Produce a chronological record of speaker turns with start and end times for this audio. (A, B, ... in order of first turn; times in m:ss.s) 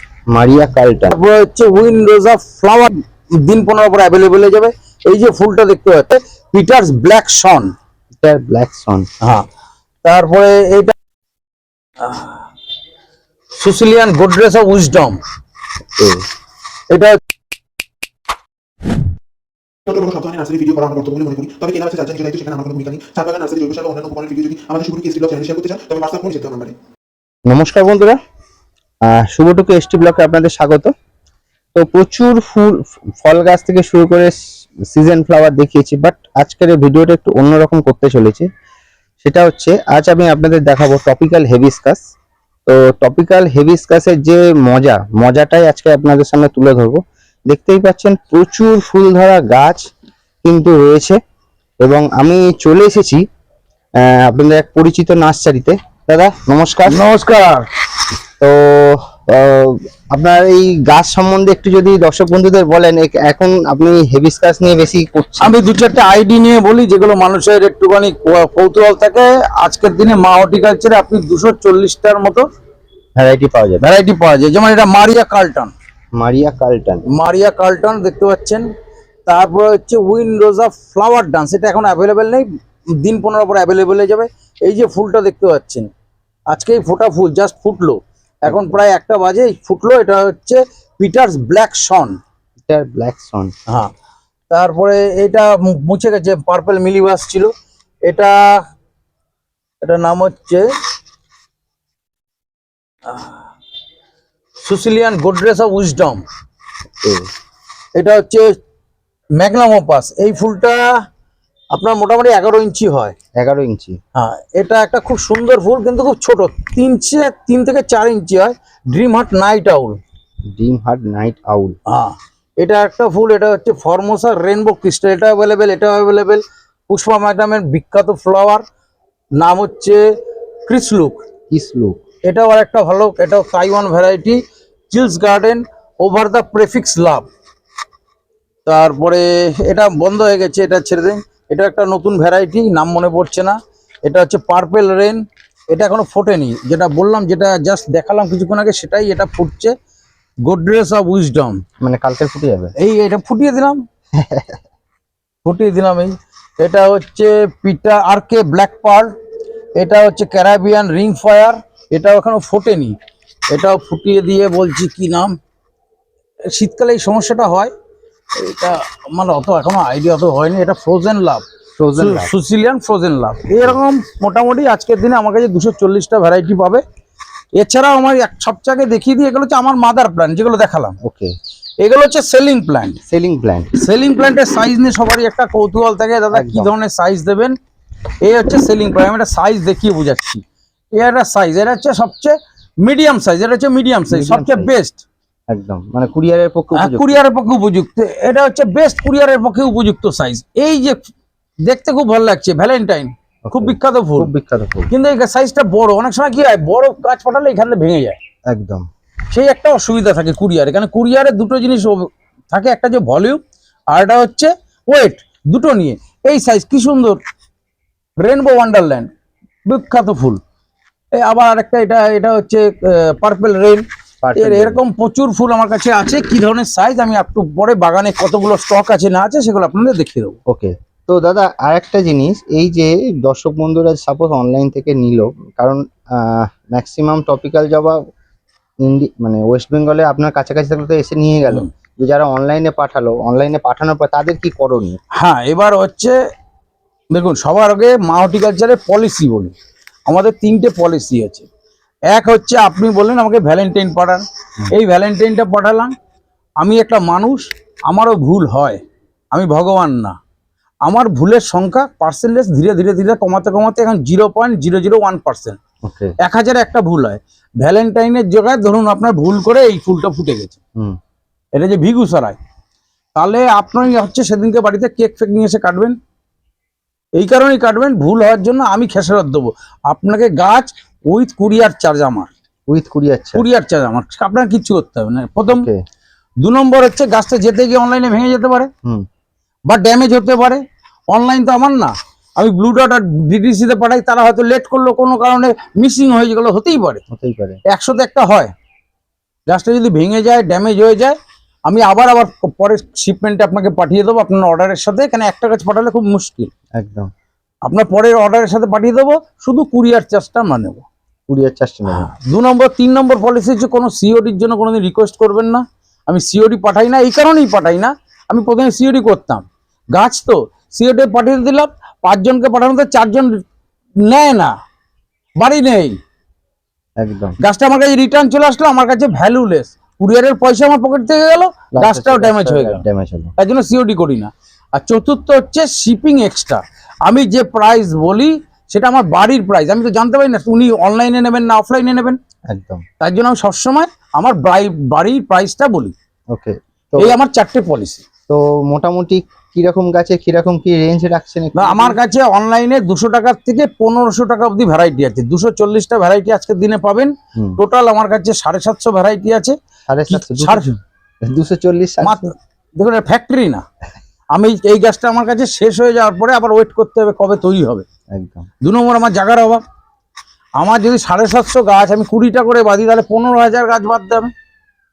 0:00.3-0:01.2 A
0:01.1-0:07.7 B
0:08.2-0:09.1 A
0:10.0-0:10.9 B
0:12.0-0:12.4 B
0:13.6-0:15.2 B
0:16.0-0:16.3 A
0:16.9-0:17.2 B
0:19.9-0:26.7 C
0:27.5-0:28.2 A
0:29.0-0:30.9 A
0:31.8-0:34.4 A
0:34.9-0:38.5 A
0:39.2-0:42.0 A
0:42.7-0:49.8 A
0:50.4-0:51.2 A
0:51.8-0:53.2 A
0:54.0-0:57.0 A
0:56.9-0:57.7 B
0:58.4-1:05.6 A
1:05.4-1:12.4 B
1:13.2-1:13.8 A
1:13.8-1:15.7 B
1:16.2-1:17.0 A
1:17.1-1:18.7 B
1:19.3-1:22.5 B
1:23.0-1:25.9 B
1:26.5-1:32.2 B
1:28.5-1:28.8 A
1:32.7-1:33.5 A
1:34.5-1:37.5 B
1:38.0-1:38.6 B
1:39.8-1:40.7 B
1:43.1-1:43.4 B
1:44.6-1:46.2 B
1:47.0-1:47.3 A
1:48.0-1:48.6 B
1:49.4-1:51.0 B
1:51.7-1:53.2 B
1:53.4-1:54.0 A
1:54.2-2:00.0 B
2:00.5-2:01.8 A
2:01.9-2:08.6 B
2:09.4-2:10.0 B
2:10.7-2:11.2 B
2:11.5-2:12.0 A
2:12.2-2:17.3 B
2:18.7-2:29.8 B
2:30.4-2:31.6 B
2:31.8-2:32.7 A
2:32.8-2:33.8 B
2:34.2-2:34.6 A
2:35.4-2:39.1 B
2:39.8-2:43.0 B
2:43.5-2:45.4 B
2:46.5-2:47.7 B
2:48.4-2:51.4 B
2:51.8-2:52.3 A
2:52.0-2:56.8 B
2:57.5-3:01.0 B
3:01.0-3:01.4 A
3:01.8-3:03.0 B
3:03.1-3:03.7 A
3:03.8-3:07.6 B
3:06.3-3:06.7 A
3:08.2-3:15.0 B
3:14.1-3:14.7 A
3:15.5-3:17.2 A
3:16.8-3:21.0 B
3:21.6-3:24.3 B
3:23.5-3:24.9 A
3:24.9-3:28.2 B
3:28.5-3:28.8 A
3:29.3-3:33.4 B
3:33.9-3:37.2 B
3:38.2-3:39.1 B
3:39.7-3:40.4 B
3:41.1-3:43.8 B
3:44.2-3:44.8 A
3:44.4-3:50.4 B
3:50.5-3:58.0 A
3:58.8-4:05.0 A
4:05.1-4:06.2 B
4:07.1-4:09.5 B
4:10.1-4:11.5 B
4:12.1-4:15.9 B
4:16.6-4:18.8 B
4:19.3-4:20.2 B
4:20.8-4:25.6 B
4:25.8-4:26.2 A
4:26.2-4:30.6 B
4:31.6-4:32.4 B
4:33.2-4:36.0 B
4:37.2-4:42.3 B
4:42.7-4:43.5 A
4:43.4-4:45.7 B
4:45.5-4:45.8 A
4:46.4-4:48.7 B
4:49.7-4:57.0 B
4:57.1-4:57.6 A
4:57.7-4:58.5 B
4:59.5-5:01.2 B
5:01.7-5:06.5 B
5:06.8-5:07.1 A
5:07.6-5:10.8 B
5:11.3-5:12.1 A
5:11.9-5:23.4 B
5:24.1-5:24.5 B
5:25.4-5:26.0 B
5:27.0-5:27.4 A
5:27.4-5:32.8 B
5:31.8-5:33.4 A
5:33.4-5:42.2 B
5:42.5-5:42.8 A
5:43.0-5:45.9 B
5:46.3-5:47.2 A
5:47.0-5:48.0 B
5:48.3-5:52.0 A
5:51.6-5:59.6 B
5:59.9-6:00.7 A
6:00.1-6:00.8 B
6:01.2-6:02.3 A
6:02.0-6:03.6 B
6:04.3-6:07.8 B
6:08.1-6:08.5 A
6:08.6-6:09.6 B
6:10.6-6:14.3 B